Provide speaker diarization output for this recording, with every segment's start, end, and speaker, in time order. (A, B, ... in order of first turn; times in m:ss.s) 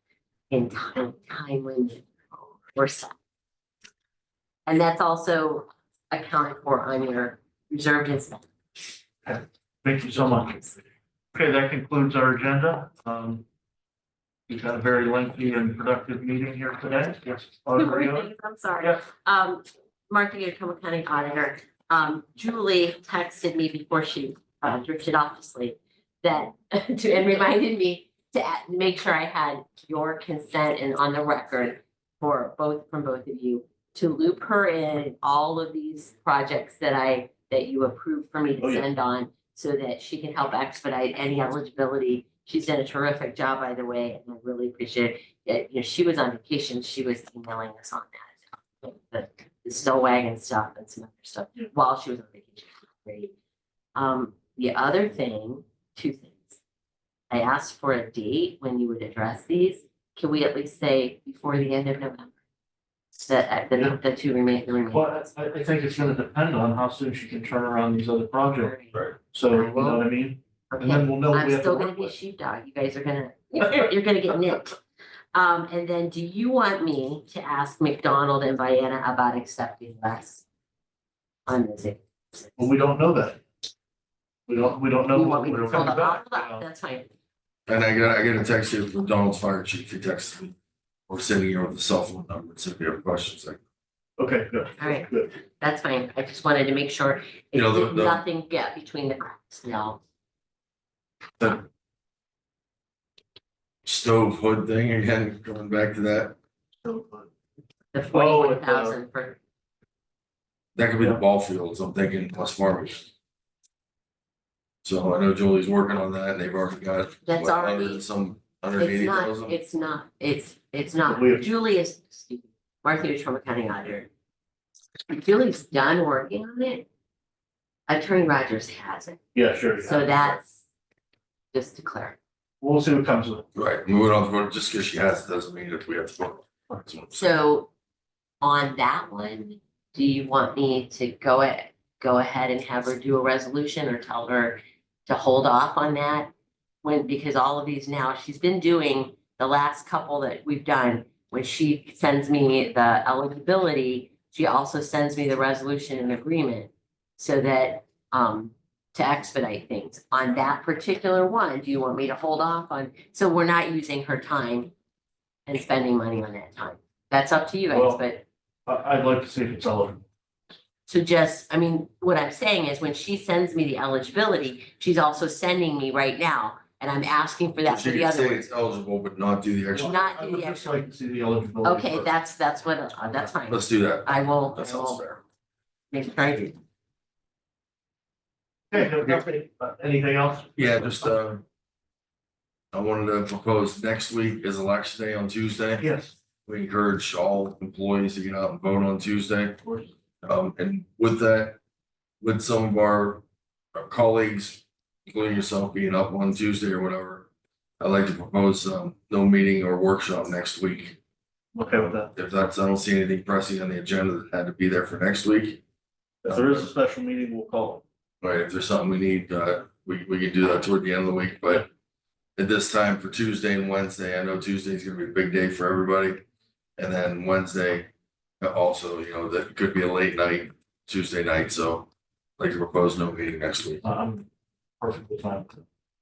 0:00.5-0:02.1 A
0:02.7-0:03.1 A
0:04.7-0:08.4 A
0:09.2-0:10.6 B
0:10.2-0:10.7 A
0:11.3-0:13.4 B
0:14.5-0:18.3 B
0:17.7-0:53.3 A
0:38.6-0:38.9 B
0:53.9-0:56.6 A
0:57.3-1:02.3 A
1:03.2-1:05.3 A
1:04.9-1:12.1 B
1:08.6-1:10.0 A
1:10.7-1:14.8 A
1:15.3-1:20.4 A
1:21.5-1:22.6 A
1:22.6-1:23.4 B
1:24.5-1:26.6 B
1:25.1-1:27.1 A
1:27.7-1:30.6 C
1:31.1-1:33.6 C
1:34.2-1:35.3 B
1:34.8-1:40.0 A
1:37.5-1:38.2 C
1:43.8-1:46.4 C
1:46.8-1:47.3 B
1:47.9-1:49.4 A
1:48.1-1:49.0 B
1:50.7-1:53.1 C
1:54.8-1:59.6 C
1:57.2-1:58.0 A
1:58.8-2:04.1 A
2:01.0-2:01.5 B
2:05.1-2:06.9 A
2:07.9-2:09.2 A
2:09.3-2:10.2 B
2:09.8-2:10.6 A
2:11.5-2:12.2 A
2:12.6-2:13.4 B
2:13.5-2:17.3 C
2:17.1-2:17.7 A
2:18.4-2:26.3 A
2:26.8-2:44.7 A
2:45.5-2:48.2 A
2:47.7-2:48.0 B
2:48.7-2:50.0 B
2:50.9-2:58.4 A
2:57.6-3:00.1 C
2:59.7-3:00.8 A
2:59.7-3:02.1 B
3:01.6-3:05.0 A
3:03.5-3:05.2 C
3:05.9-3:06.6 A
3:08.7-3:10.9 B
3:10.6-3:11.4 C
3:12.7-3:15.9 C
3:15.8-3:16.1 B
3:16.4-3:19.6 C
3:20.2-3:21.6 C
3:22.2-3:27.3 C
3:27.8-3:31.0 C
3:31.5-3:32.1 B
3:31.7-3:35.6 C
3:36.2-3:37.8 B
3:36.3-3:36.7 C
3:38.2-3:41.7 C
3:42.4-3:46.2 C
3:46.8-3:47.9 C
3:48.4-3:53.8 C
3:53.8-3:54.3 B
3:54.8-3:55.6 B